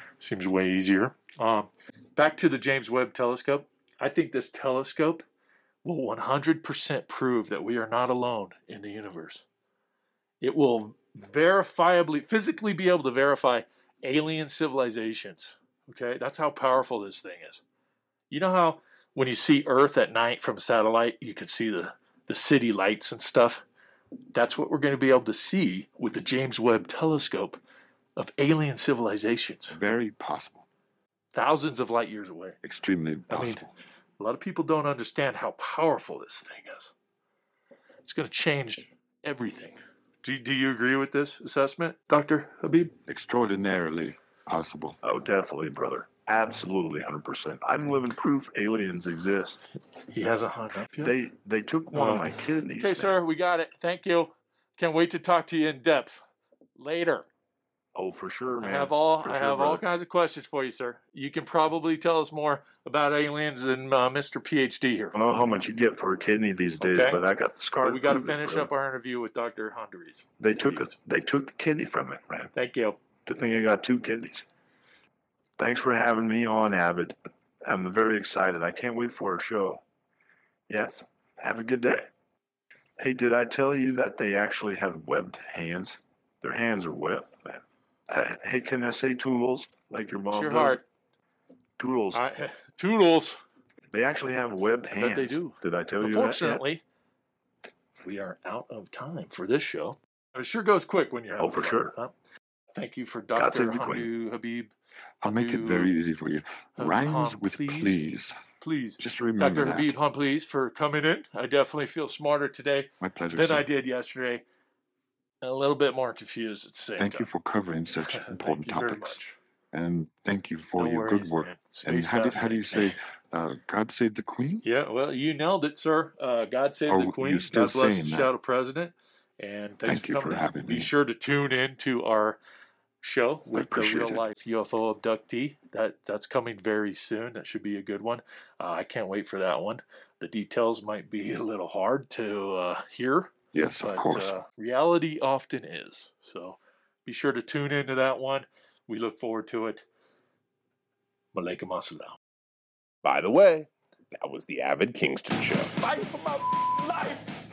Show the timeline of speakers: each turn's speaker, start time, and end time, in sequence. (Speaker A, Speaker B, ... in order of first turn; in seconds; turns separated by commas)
Speaker A: 0.2-5.2, Speaker A: 5.8-9.4, Speaker A: 10.4-17.6, Speaker A: 18.3-23.6, Speaker A: 24.3-27.6, Speaker A: 28.1-29.8, Speaker B: 29.7-30.6, Speaker A: 31.3-32.6, Speaker B: 32.6-33.7, Speaker A: 33.3-33.6, Speaker A: 34.2-36.9, Speaker A: 38.0-42.9, Speaker B: 43.1-45.0, Speaker C: 45.0-49.6, Speaker A: 50.1-51.1, Speaker C: 51.0-53.2, Speaker A: 51.9-56.2, Speaker A: 56.8-57.2, Speaker C: 57.9-59.8, Speaker A: 58.6-65.1, Speaker C: 65.1-68.7, Speaker A: 66.8-67.2, Speaker A: 67.8-70.9, Speaker C: 70.4-72.5, Speaker A: 72.5-73.0, Speaker C: 73.2-74.4, Speaker C: 75.6-79.8, Speaker C: 80.7-82.1, Speaker C: 83.0-90.8, Speaker A: 90.3-90.8, Speaker C: 91.8-92.2, Speaker A: 92.1-93.4, Speaker C: 93.9-96.6, Speaker A: 95.0-96.8, Speaker A: 98.0-102.1, Speaker C: 101.4-101.9, Speaker A: 102.7-104.7, Speaker C: 103.3-104.1, Speaker B: 105.2-108.3, Speaker A: 105.2-105.9, Speaker A: 106.8-108.0, Speaker A: 108.6-114.4, Speaker B: 109.0-109.9, Speaker B: 113.0-113.7, Speaker A: 115.4-117.3, Speaker B: 117.0-119.2, Speaker A: 118.1-119.3, Speaker B: 119.7-124.7, Speaker A: 120.8-123.0, Speaker A: 124.6-132.4, Speaker B: 126.9-128.3, Speaker B: 129.8-130.9, Speaker A: 133.0-149.8, Speaker B: 133.5-134.2, Speaker B: 143.5-144.4, Speaker A: 151.3-152.2, Speaker D: 153.0-155.7, Speaker A: 155.8-157.3